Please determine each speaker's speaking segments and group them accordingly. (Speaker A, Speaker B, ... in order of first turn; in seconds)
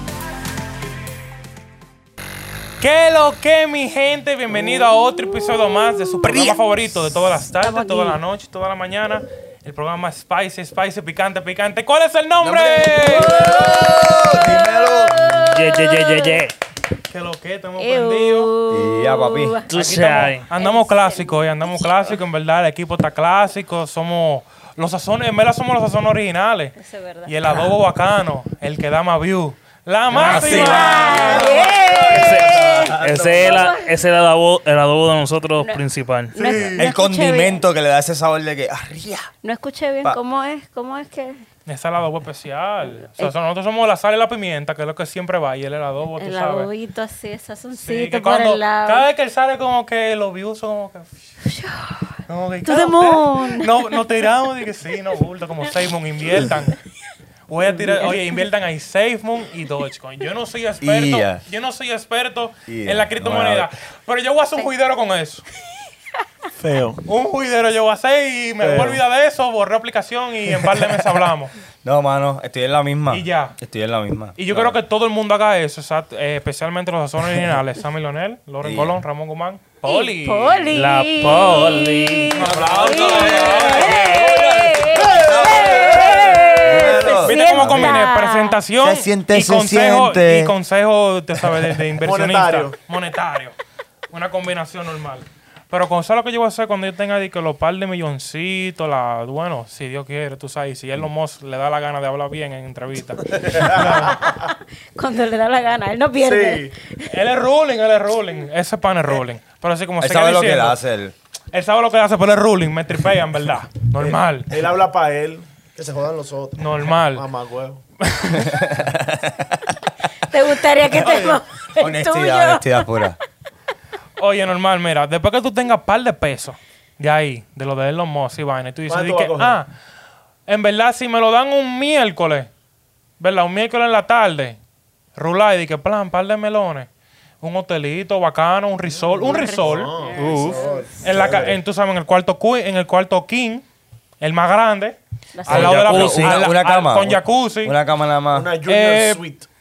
Speaker A: 2.8-13.9, 17.1-18.5, 19.7-26.7, 27.3-31.5, 36.4-36.8, 41.7-46.7, 47.8-51.1, 52.3-56.8, 57.5-65.4, 67.1-71.5, 73.1-73.6, 74.3-80.7, 82.3-84.2, 87.2-93.5, 94.1-104.2, 107.1-110.8, 111.5-114.5, 116.6-117.3, 118.0-118.5, 124.2-129.7, 130.5-132.5, 133.2-134.6, 135.2-136.9, 137.4-139.9, 141.0-143.6, 144.2-147.8, 148.7-149.2
Speaker B: 5.8-6.5, 7.5-8.2, 13.1-16.4, 17.8-19.7, 20.5-22.2, 26.8-27.3, 30.2-33.9, 35.6-37.6, 39.4-41.4, 43.0-43.3, 46.2-49.1, 51.4-53.9, 57.7-58.2, 79.8-88.5, 103.8-107.1, 120.2-123.0, 139.2-141.0, 145.3-145.8
Speaker C: 6.2-6.6, 12.4-15.4, 18.7-19.6, 30.1-33.7, 36.8-39.3, 60.8-61.4, 62.7-63.7, 70.7-71.2, 71.8-74.7, 78.6-79.0, 82.4-88.0, 88.8-90.5, 110.0-111.1, 118.3-119.8, 121.8-123.2, 145.5-148.5
Speaker D: 15.5-16.5, 19.7-20.5, 32.1-36.4, 80.7-82.4, 140.2-140.6, 145.5-146.4
Speaker E: 36.5-36.8, 66.6-67.0, 68.6-69.0, 92.0-92.7, 103.3-104.4, 106.2-106.7, 114.0-117.8, 128.9-129.6, 138.9-141.6, 148.3-149.4